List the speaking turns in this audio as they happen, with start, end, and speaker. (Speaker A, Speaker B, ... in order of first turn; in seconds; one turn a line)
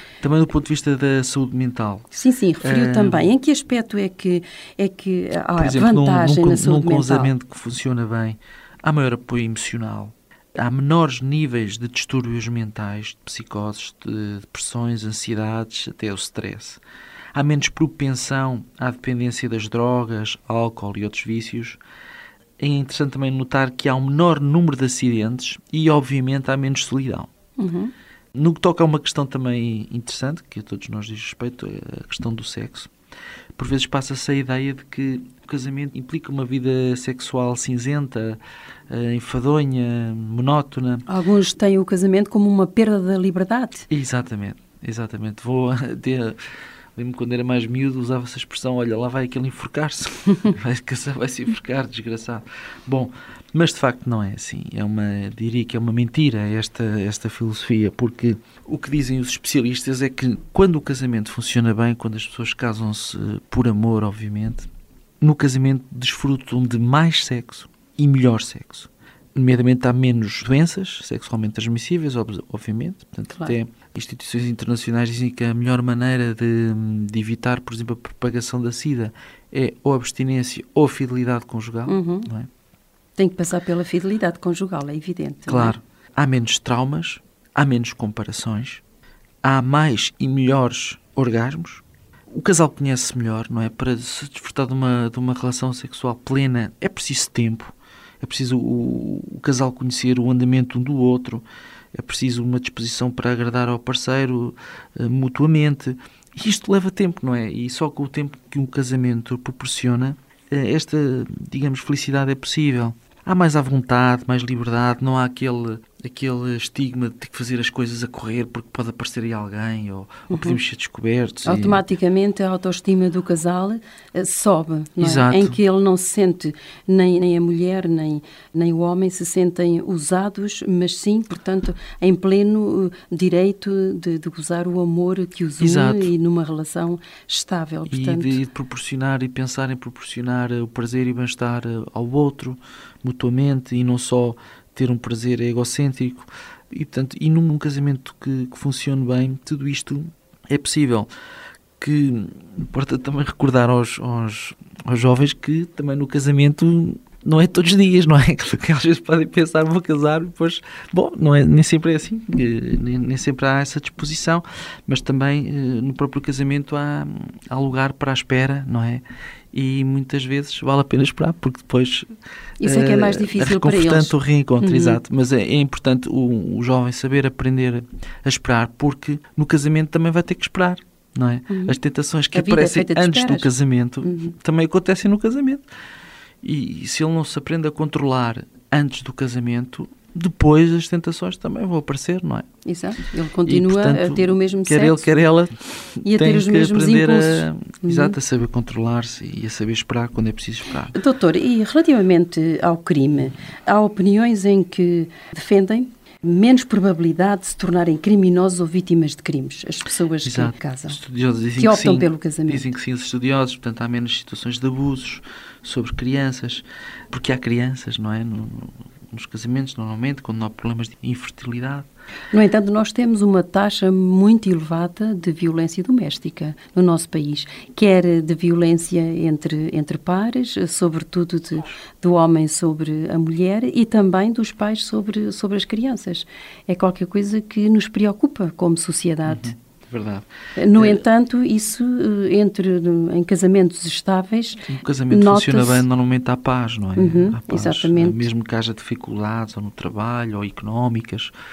Speaker A: 0.2-2.1
Speaker B: 2.1-7.3
Speaker A: 2.6-3.3
Speaker A: 5.6-16.8
Speaker A: 17.3-21.8
Speaker A: 22.6-27.3
Speaker B: 27.6-27.9
Speaker A: 28.3-32.9
Speaker A: 33.5-41.0
Speaker B: 41.1-43.9
Speaker A: 43.9-46.4
Speaker A: 47.0-64.7
Speaker A: 65.2-82.5
Speaker B: 81.9-82.3
Speaker B: 83.2-85.8
Speaker A: 85.5-88.8
Speaker A: 89.4-91.8
Speaker A: 92.3-121.8
Speaker B: 120.3-120.6
Speaker B: 121.5-138.4
Speaker A: 125.0-125.6
Speaker A: 135.6-136.1
Speaker A: 137.9-151.1
Speaker A: 151.8-172.1
Speaker B: 172.6-175.0
Speaker A: 172.6-185.6
Speaker B: 181.5-181.8
Speaker B: 182.3-183.5
Speaker B: 184.0-184.3
Speaker A: 186.4-192.5
Speaker B: 192.6-195.1
Speaker A: 193.4-200.9
Speaker B: 196.1-198.1
Speaker B: 200.9-211.0
Speaker A: 210.2-221.9
Speaker B: 211.6-212.6
Speaker B: 222.3-239.5
Speaker A: 239.3-241.0
Speaker B: 240.6-245.8
Speaker A: 244.7-251.3
Speaker B: 247.0-248.2